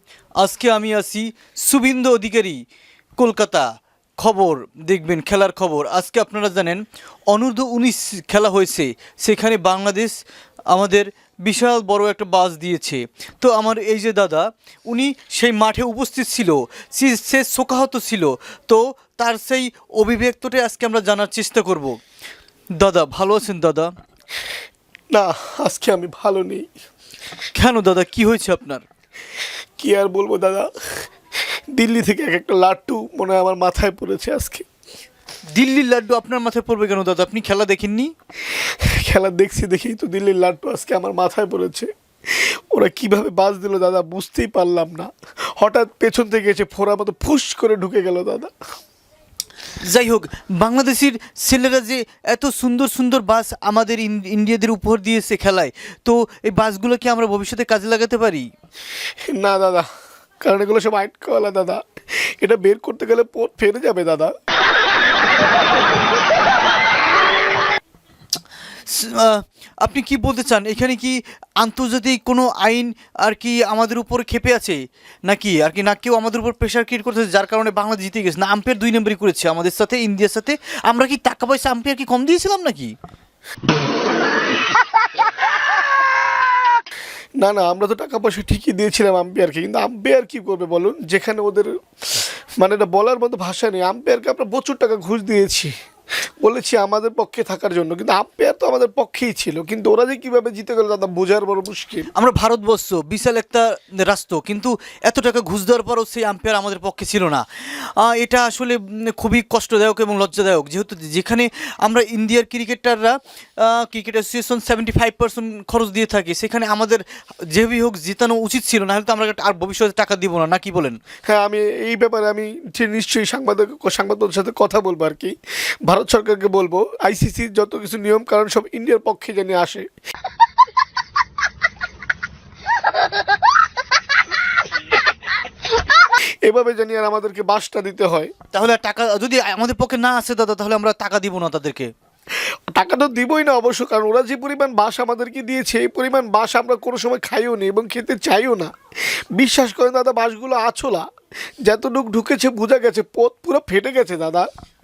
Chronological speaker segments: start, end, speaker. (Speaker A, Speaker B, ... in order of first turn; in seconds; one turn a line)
Speaker A: 0.4-2.6
Speaker A: 3.2-3.7
Speaker A: 4.2-10.1
Speaker A: 10.7-21.9
Speaker A: 22.8-23.9
Speaker B: 25.1-26.7
Speaker A: 27.5-28.8
Speaker B: 29.8-31.0
Speaker B: 31.7-34.6
Speaker A: 35.5-38.1
Speaker B: 38.5-48.5
Speaker A: 49.8-58.5
Speaker B: 59.3-59.9
Speaker B: 60.4-64.3
Speaker A: 68.8-82.9
Speaker B: 87.4-95.7
Speaker B: 96.4-102.1
Speaker A: 102.1-121.0
Speaker B: 121.3-129.9
Speaker B: 136.4-138.3
Speaker A: 138.5-141.9
Speaker B: 142.7-151.1
Speaker B: 151.6-154.5